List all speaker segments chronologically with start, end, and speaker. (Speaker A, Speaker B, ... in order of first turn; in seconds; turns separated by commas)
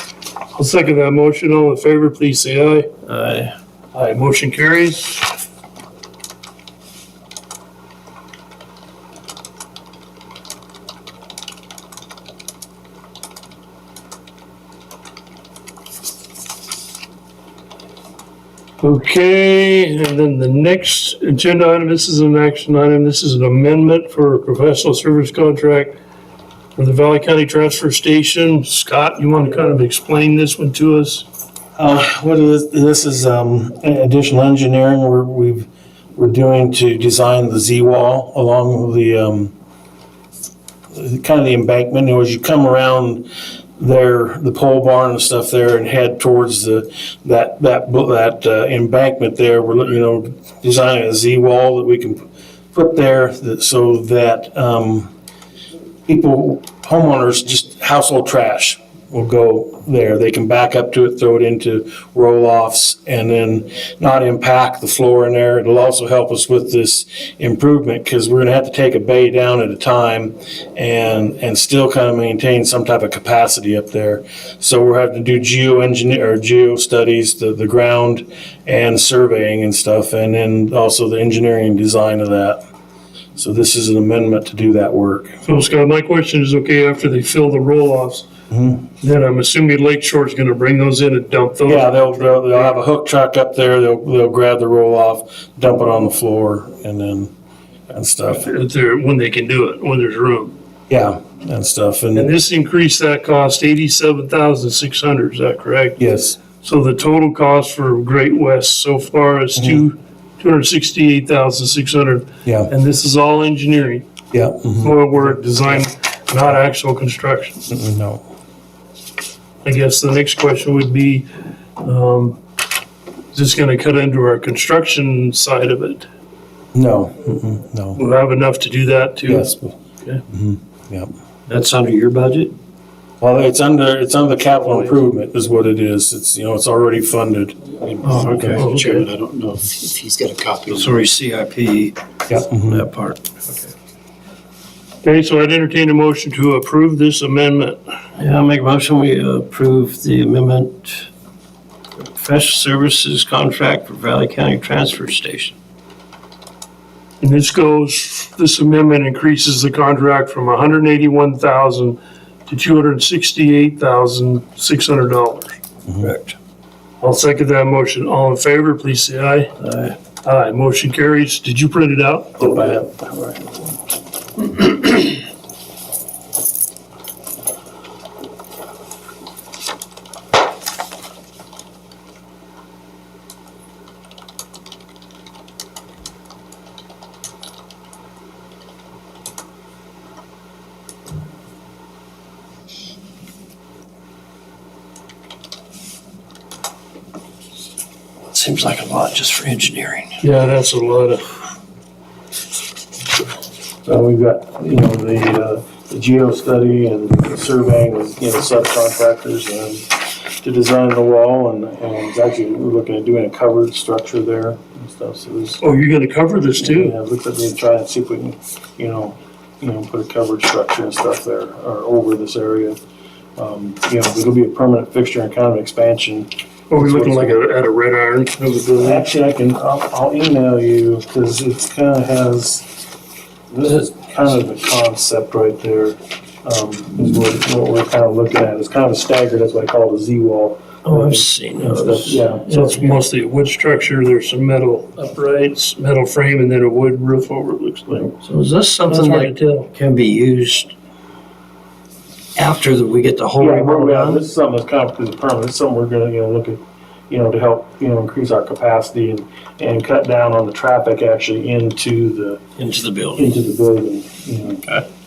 Speaker A: 0.5-2.9, Speaker B: 3.0-3.5, Speaker A: 3.9-5.3, Speaker A: 18.8-26.0, Speaker A: 26.8-31.2, Speaker C: 31.8-39.5, Speaker C: 40.9-55.1, Speaker C: 56.1-82.6, Speaker C: 83.3-85.4, Speaker A: 85.4-88.3, Speaker C: 88.5-88.9, Speaker A: 89.0-92.7, Speaker C: 91.6-97.3, Speaker C: 97.9-98.5, Speaker A: 98.3-100.5, Speaker C: 100.9-102.3, Speaker A: 102.1-106.0, Speaker C: 106.0-106.4, Speaker A: 106.6-114.0, Speaker C: 109.6-109.8, Speaker C: 112.4-112.7, Speaker C: 114.3-115.9, Speaker A: 114.8-117.6, Speaker C: 117.7-118.2, Speaker A: 119.6-121.3, Speaker A: 121.8-122.4, Speaker A: 123.3-126.0, Speaker C: 126.7-128.0, Speaker A: 128.0-130.2, Speaker C: 129.2-129.7, Speaker C: 130.3-131.1, Speaker B: 131.5-132.5, Speaker C: 133.2-138.6, Speaker D: 137.9-141.0, Speaker B: 138.0-138.6, Speaker A: 138.1-139.1, Speaker B: 140.7-143.7, Speaker C: 142.3-142.9, Speaker A: 145.0-147.8, Speaker B: 148.2-151.1, Speaker B: 152.0-155.6, Speaker A: 157.2-165.6, Speaker B: 166.0-166.4, Speaker A: 167.0-169.5, Speaker B: 169.6-169.9, Speaker A: 170.2-172.8, Speaker C: 172.4-173.6, Speaker B: 198.3-200.1, Speaker A: 200.2-201.2, Speaker C: 203.8-215.6, Speaker A: 215.6-216.9, Speaker C: 216.6-222.8, Speaker C: 223.4-227.4, Speaker A: 226.7-229.1, Speaker C: 228.8-232.7, Speaker C: 233.5-243.0, Speaker B: 240.8-242.2, Speaker A: 242.4-248.2, Speaker B: 248.2-250.7, Speaker A: 248.8-249.7, Speaker B: 252.3-254.2, Speaker C: 253.4-262.4, Speaker B: 262.6-263.4, Speaker C: 263.1-264.6